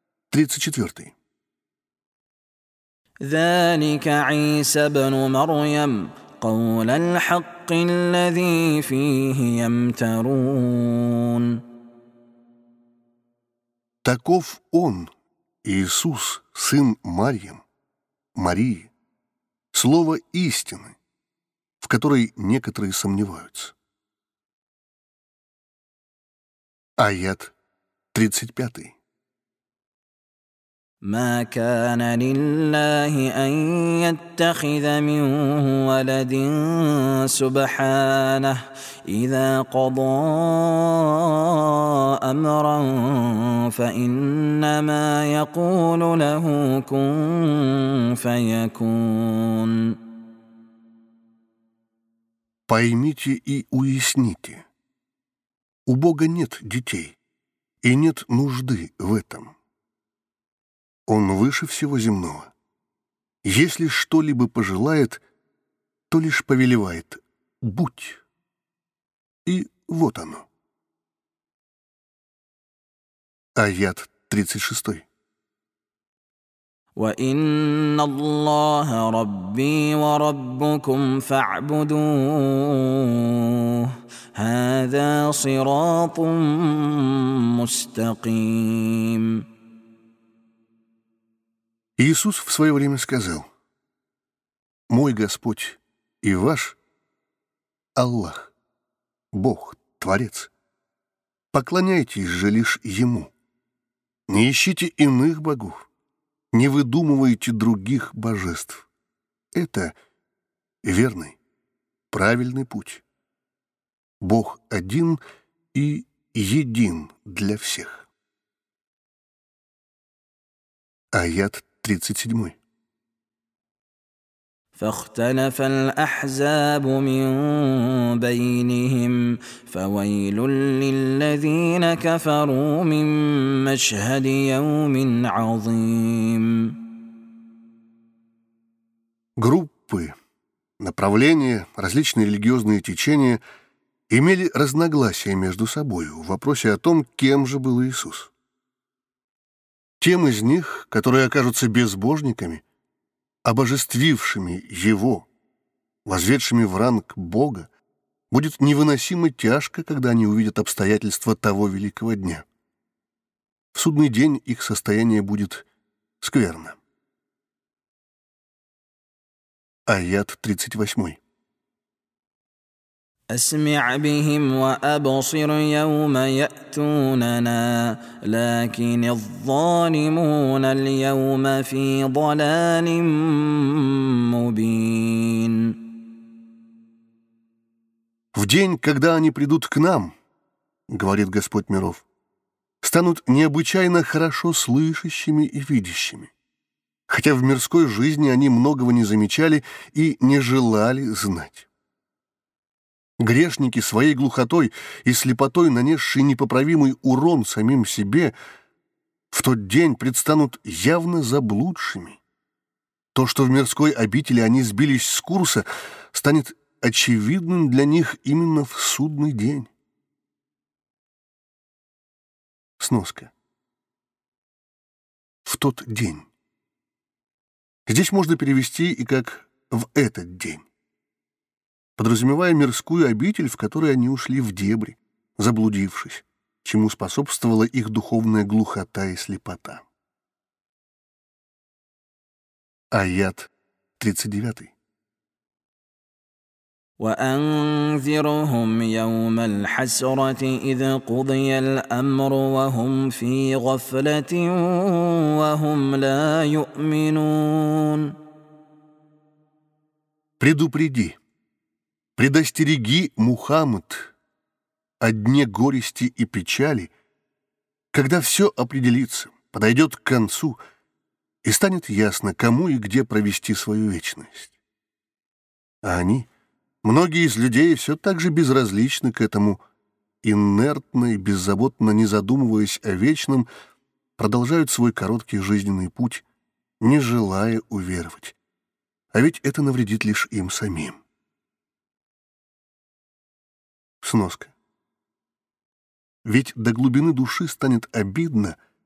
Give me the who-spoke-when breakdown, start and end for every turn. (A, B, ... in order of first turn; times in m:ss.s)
0:00.3-0:01.2 A
0:03.2-0:11.6 B
0:14.0-0:15.1 A
0:15.6-0:17.6 A
0:18.4-0:18.9 A
0:19.7-0:21.0 A
0:21.8-0:23.8 A
0:27.0-0:27.5 A
0:28.1-0:29.0 A
0:31.0-0:49.9 B
0:52.7-0:54.7 A
0:55.9-0:57.2 A
0:57.8-0:59.6 A
1:01.1-1:02.5 A
1:03.4-1:05.2 A
1:06.1-1:08.2 A
1:09.4-1:10.5 A
1:13.6-1:15.1 A
1:17.0-1:29.4 B
1:32.0-1:33.5 A
1:34.9-1:36.8 A
1:38.0-1:38.5 A
1:39.3-1:40.5 A
1:41.5-1:43.3 A
1:44.3-1:45.9 A
1:46.5-1:48.9 A
1:49.5-1:50.0 A
1:50.8-1:51.4 A
1:52.1-1:53.0 A
1:54.2-1:55.2 A
1:55.7-1:58.1 A
2:01.1-2:02.6 A
2:04.8-2:16.8 B
2:19.4-2:20.2 A
2:20.8-2:23.4 A
2:24.1-2:28.3 A
2:30.0-2:32.6 A
2:33.4-2:35.3 A
2:36.0-2:37.7 A
2:38.3-2:42.5 A
2:43.7-2:45.7 A
2:46.2-2:46.8 A
2:49.9-2:51.2 A
2:53.3-3:05.8 B
3:08.3-3:10.2 A
3:10.9-3:12.0 A
3:12.8-3:16.3 A
3:17.1-3:21.7 A
3:23.2-3:28.3 A
3:29.3-3:32.2 A
3:33.1-3:39.7 A
3:42.8-3:43.3 A
3:45.4-3:46.3 A
3:47.9-3:50.7 A
3:52.0-3:59.9 A
4:02.9-4:04.7 A
4:07.0-4:18.1 B
4:20.4-4:21.2 A
4:22.2-4:24.1 A
4:25.0-4:26.9 A
4:27.9-4:30.6 A
4:31.4-4:34.6 A
4:35.8-4:36.3 A
4:36.8-4:39.6 A
4:40.2-4:43.5 A
4:44.2-4:46.2 A
4:46.8-4:48.4 A
4:49.1-4:51.0 A
4:54.0-4:54.5 A
4:56.2-4:58.6 A